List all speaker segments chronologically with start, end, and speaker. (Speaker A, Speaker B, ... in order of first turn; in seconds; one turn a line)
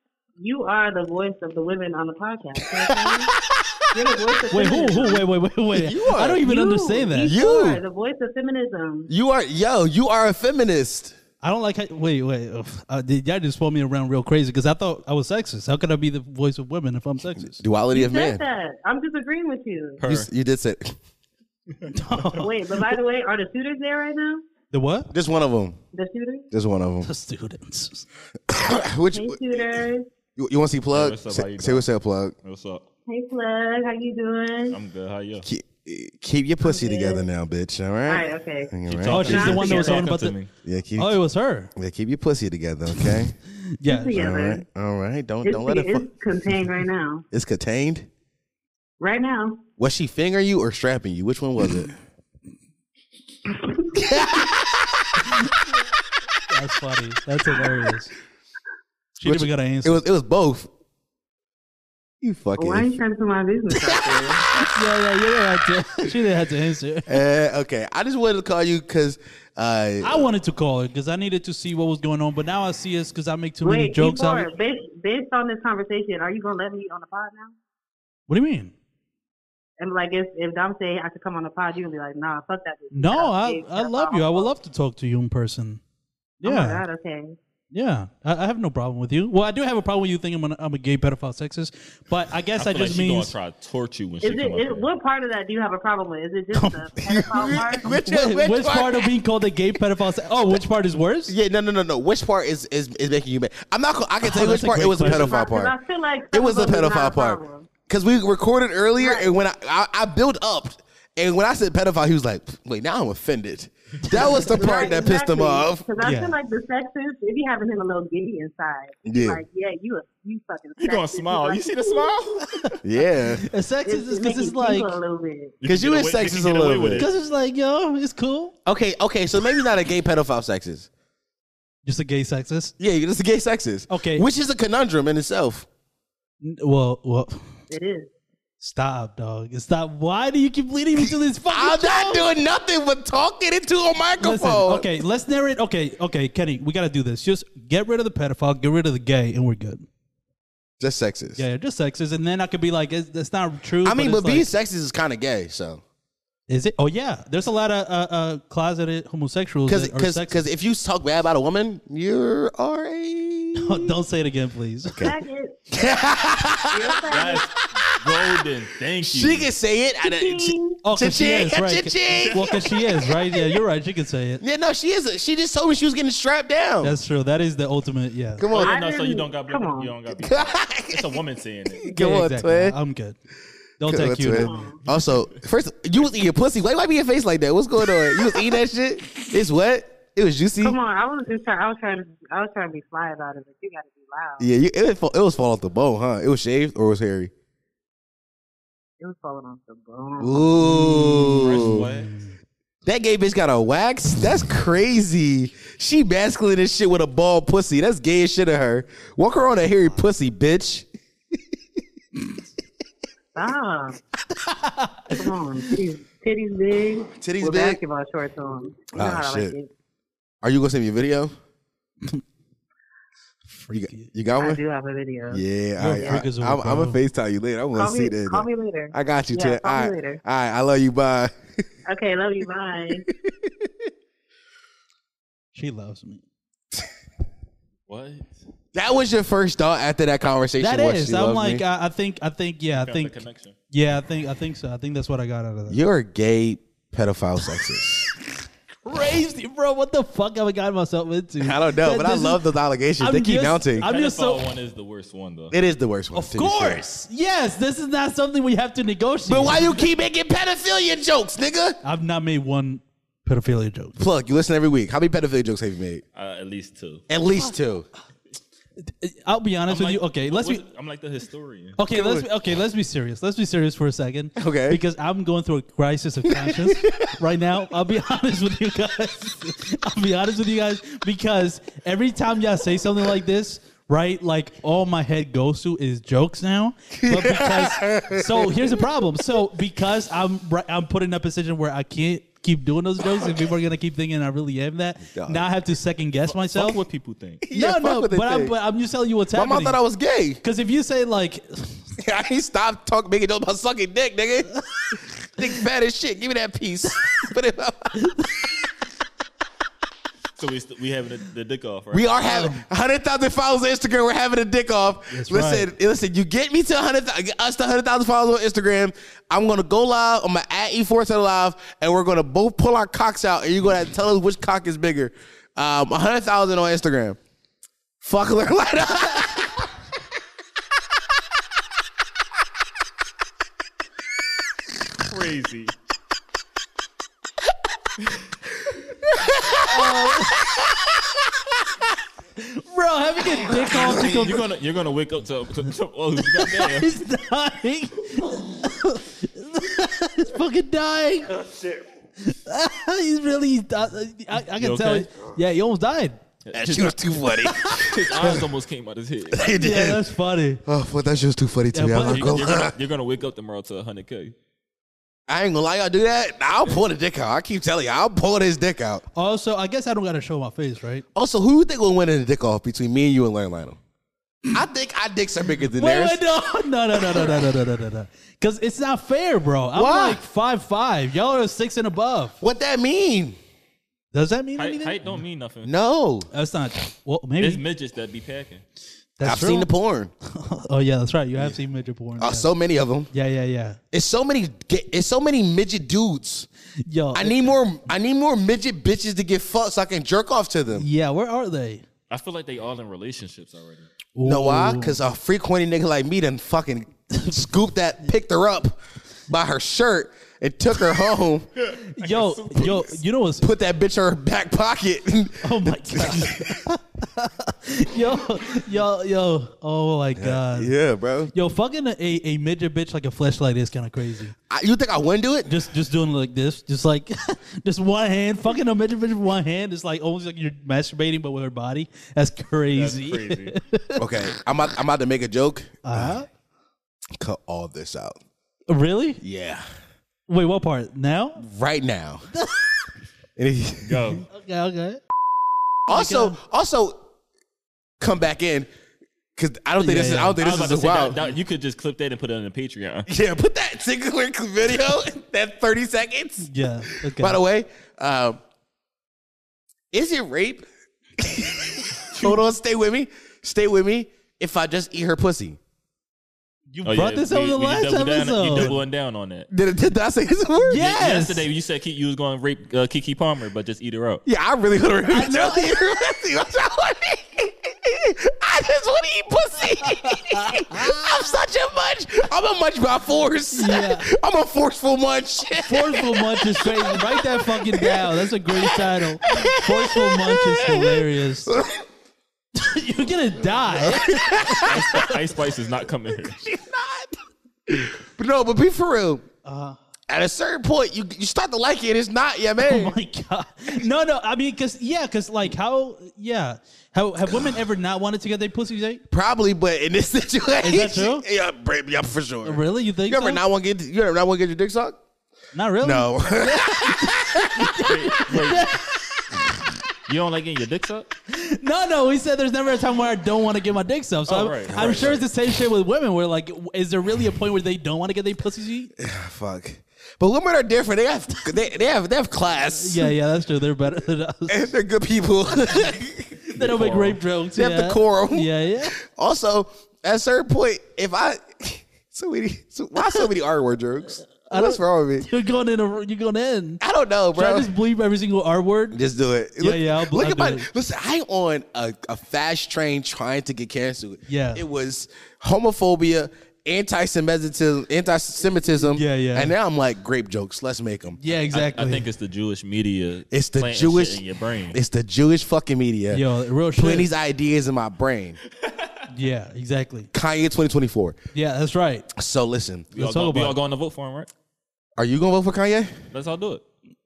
Speaker A: 0.4-3.3
Speaker B: 2.8-4.7
Speaker A: 3.9-5.3
Speaker C: 4.5-7.3
Speaker B: 5.7-6.5
Speaker A: 6.4-9.1
Speaker B: 7.2-7.8
Speaker B: 9.1-11.2
Speaker C: 11.4-17.6
Speaker B: 17.5-18.4
Speaker A: 17.9-20.0
Speaker D: 20.0-20.3
Speaker B: 20.0-21.0
Speaker C: 21.9-22.5
Speaker A: 22.3-24.4
Speaker C: 24.7-25.1
Speaker B: 25.1-25.8
Speaker A: 25.9-26.5
Speaker B: 26.5-27.1
Speaker C: 27.0-28.1
Speaker B: 28.5-29.8
Speaker A: 29.1-30.1
Speaker B: 30.4-32.3
Speaker D: 30.9-31.9
Speaker D: 32.4-32.8
Speaker A: 33.1-34.8
Speaker D: 34.7-35.5
Speaker B: 35.4-39.6
Speaker A: 36.6-37.2
Speaker A: 38.0-40.1
Speaker D: 38.9-40.5
Speaker C: 39.0-40.3
Speaker B: 40.6-41.2
Speaker C: 41.0-41.7
Speaker B: 41.7-43.4
Speaker C: 43.8-44.1
Speaker A: 43.9-44.6
Speaker B: 44.1-46.1
Speaker A: 45.4-47.2
Speaker B: 47.3-48.1
Speaker A: 49.0-49.6
Speaker B: 49.8-51.9
Speaker A: 53.5-54.0
Speaker B: 53.9-54.9
Speaker C: 56.5-58.1
Speaker C: 59.2-60.0
Speaker B: 59.2-60.7
Speaker B: 62.2-63.0
Speaker A: 62.6-64.4
Speaker C: 64.7-67.2
Speaker B: 67.1-70.3
Speaker C: 70.0-74.5
Speaker A: 73.6-77.5
Speaker C: 78.3-78.7
Speaker A: 79.8-84.5
Speaker C: 82.9-85.8
Speaker C: 86.4-86.8
Speaker A: 86.4-87.3
Speaker C: 87.7-93.3
Speaker D: 92.6-94.9
Speaker A: 94.2-97.9
Speaker C: 96.5-96.8
Speaker B: 97.0-99.1
Speaker C: 97.4-101.3
Speaker B: 101.3-105.7
Speaker C: 104.2-105.3
Speaker A: 104.9-107.7
Speaker B: 106.3-115.8
Speaker A: 109.0-109.3
Speaker C: 114.1-114.7
Speaker A: 114.5-122.1
Speaker C: 116.0-116.3
Speaker B: 119.0-119.4
Speaker D: 120.8-122.7
Speaker B: 122.8-123.5
Speaker C: 123.5-125.0
Speaker A: 123.8-125.5
Speaker D: 125.6-127.1
Speaker B: 125.6-127.1
Speaker C: 127.0-128.5
Speaker B: 128.7-130.9
Speaker C: 131.8-132.7
Speaker B: 132.8-135.7
Speaker C: 133.9-134.2
Speaker C: 136.4-137.4
Speaker A: 137.7-138.1
Speaker C: 138.6-142.3
Speaker B: 141.5-144.9
Speaker C: 144.2-149.8
Speaker B: 150.8-151.4
Speaker C: 151.4-154.5
Speaker B: 153.8-155.8
Speaker C: 156.5-160.4
Speaker B: 159.7-163.9
Speaker C: 163.6-165.0
Speaker A: 165.0-165.6
Speaker B: 165.7-167.1
Speaker A: 166.7-167.5
Speaker D: 167.1-169.5
Speaker B: 167.7-168.5
Speaker B: 169.0-173.5
Speaker A: 170.0-170.8
Speaker C: 170.8-174.4
Speaker D: 172.1-172.4
Speaker B: 174.4-176.9
Speaker C: 176.8-178.4
Speaker B: 178.4-178.8
Speaker D: 178.5-181.9
Speaker A: 178.6-179.9
Speaker B: 180.2-181.2
Speaker B: 181.8-182.8
Speaker C: 181.9-183.2
Speaker C: 183.8-184.7
Speaker B: 183.8-190.8
Speaker A: 184.4-184.8
Speaker A: 190.6-194.5
Speaker B: 194.4-197.3
Speaker A: 199.0-200.5
Speaker B: 200.2-201.9
Speaker C: 200.6-202.3
Speaker D: 201.4-202.1
Speaker B: 202.8-210.9
Speaker A: 213.3-214.0
Speaker C: 214.4-215.2
Speaker A: 215.1-219.7
Speaker B: 217.1-217.8
Speaker B: 218.9-219.6
Speaker B: 220.4-221.3
Speaker C: 223.5-224.1
Speaker B: 223.7-224.6
Speaker A: 224.4-226.2
Speaker B: 225.3-231.6
Speaker C: 225.8-227.0
Speaker A: 227.7-230.2
Speaker A: 231.8-233.1
Speaker B: 233.1-233.7
Speaker C: 235.5-236.2
Speaker D: 237.9-238.2
Speaker B: 238.7-241.6
Speaker C: 240.6-243.2
Speaker D: 242.8-243.5
Speaker C: 243.7-245.8
Speaker B: 245.7-248.1
Speaker C: 248.8-252.4
Speaker B: 251.4-253.9
Speaker C: 253.0-254.4
Speaker D: 253.8-255.5
Speaker B: 255.5-256.8
Speaker C: 256.1-259.9
Speaker B: 259.3-261.8
Speaker C: 261.8-263.9
Speaker B: 264.0-266.0
Speaker D: 266.1-267.0
Speaker B: 267.1-267.9
Speaker C: 268.9-270.6
Speaker D: 269.7-271.8
Speaker C: 271.8-296.8
Speaker B: 271.9-272.3
Speaker B: 274.4-274.8
Speaker B: 276.3-277.1
Speaker B: 287.0-288.8
Speaker B: 295.1-295.5
Speaker D: 296.2-297.4
Speaker B: 297.4-298.5
Speaker C: 297.5-299.8
Speaker B: 299.3-300.4
Speaker C: 300.4-301.8
Speaker B: 302.0-304.5
Speaker B: 305.4-308.3
Speaker C: 308.0-308.3
Speaker D: 310.4-312.1
Speaker B: 311.9-327.2
Speaker C: 312.2-312.6
Speaker C: 315.1-315.7
Speaker B: 328.0-329.7
Speaker D: 335.0-335.7
Speaker B: 339.1-340.9
Speaker C: 339.6-340.4
Speaker C: 342.4-344.4
Speaker B: 343.6-344.1
Speaker D: 343.8-346.9
Speaker C: 346.4-351.4
Speaker C: 352.2-356.2
Speaker D: 354.6-355.1
Speaker D: 356.4-356.9
Speaker B: 356.5-358.4
Speaker C: 357.5-358.4
Speaker D: 357.8-359.5
Speaker B: 359.3-360.0
Speaker C: 359.5-360.6
Speaker B: 360.6-362.7
Speaker C: 361.7-362.4
Speaker D: 362.0-364.3
Speaker B: 365.3-369.0
Speaker C: 369.1-371.0
Speaker B: 371.1-373.8
Speaker B: 374.5-376.2
Speaker C: 375.7-382.3
Speaker B: 377.0-377.4
Speaker B: 379.7-380.2
Speaker B: 382.4-383.4
Speaker C: 384.1-385.2
Speaker D: 384.6-385.7
Speaker B: 385.6-386.3
Speaker C: 386.3-387.6
Speaker D: 387.4-388.6
Speaker C: 389.2-389.7
Speaker B: 389.2-390.1
Speaker C: 390.3-392.5
Speaker B: 392.2-393.1
Speaker C: 393.1-393.8
Speaker B: 393.9-396.5
Speaker C: 396.9-397.5
Speaker B: 397.1-400.9
Speaker C: 400.7-401.8
Speaker D: 402.1-403.9
Speaker C: 404.1-405.0
Speaker B: 404.2-411.5
Speaker D: 411.6-412.8
Speaker C: 411.9-413.4
Speaker B: 413.4-416.6
Speaker C: 415.4-420.7
Speaker B: 420.1-421.3
Speaker C: 421.3-424.3
Speaker B: 424.5-425.6
Speaker C: 425.5-434.0
Speaker D: 432.7-433.6
Speaker B: 434.0-436.2
Speaker C: 435.8-436.3
Speaker B: 437.2-438.2
Speaker C: 438.7-439.2
Speaker B: 439.2-439.7
Speaker C: 440.3-441.4
Speaker B: 441.4-442.3
Speaker C: 442.3-442.6
Speaker B: 443.4-444.2
Speaker D: 443.8-444.2
Speaker C: 444.3-445.0
Speaker B: 445.9-447.0
Speaker C: 445.9-446.4
Speaker B: 448.0-448.7
Speaker B: 449.4-451.3
Speaker C: 449.8-450.4
Speaker D: 450.4-453.1
Speaker B: 453.1-458.4
Speaker C: 456.4-457.4
Speaker B: 459.9-460.6
Speaker B: 461.2-465.6
Speaker C: 466.7-468.8
Speaker D: 466.8-469.5
Speaker B: 469.5-470.9
Speaker C: 470.6-471.4
Speaker D: 470.8-474.2
Speaker B: 474.2-491.8
Speaker C: 475.1-475.9
Speaker C: 480.1-481.1
Speaker C: 483.5-484.1
Speaker C: 485.6-491.5
Speaker C: 492.6-495.1
Speaker B: 493.7-494.9
Speaker D: 494.6-496.4
Speaker B: 496.3-497.1
Speaker B: 497.7-499.2
Speaker C: 499.4-499.8
Speaker B: 500.1-503.0
Speaker C: 502.6-509.0
Speaker B: 507.2-507.6
Speaker B: 509.1-515.0
Speaker C: 510.6-511.2
Speaker C: 512.4-513.4
Speaker C: 515.5-519.2
Speaker B: 515.8-517.9
Speaker D: 517.8-518.7
Speaker D: 520.0-521.1
Speaker C: 521.3-528.9
Speaker D: 524.3-525.2
Speaker B: 524.7-525.1
Speaker B: 529.0-533.1
Speaker C: 532.8-534.6
Speaker B: 534.5-536.5
Speaker C: 536.5-539.0
Speaker D: 536.6-537.2
Speaker B: 537.5-545.2
Speaker C: 544.5-546.8
Speaker B: 546.8-547.7
Speaker C: 547.3-549.0
Speaker B: 548.9-561.2
Speaker C: 549.6-550.7
Speaker C: 554.3-554.6
Speaker C: 558.9-559.5
Speaker C: 561.2-562.0
Speaker D: 561.5-564.8
Speaker B: 563.3-568.4
Speaker C: 566.1-567.1
Speaker C: 569.1-570.1
Speaker B: 570.1-571.1
Speaker C: 571.3-572.1
Speaker B: 572.1-572.9
Speaker D: 572.9-574.3
Speaker C: 573.0-573.5
Speaker B: 575.0-575.9
Speaker D: 576.1-576.6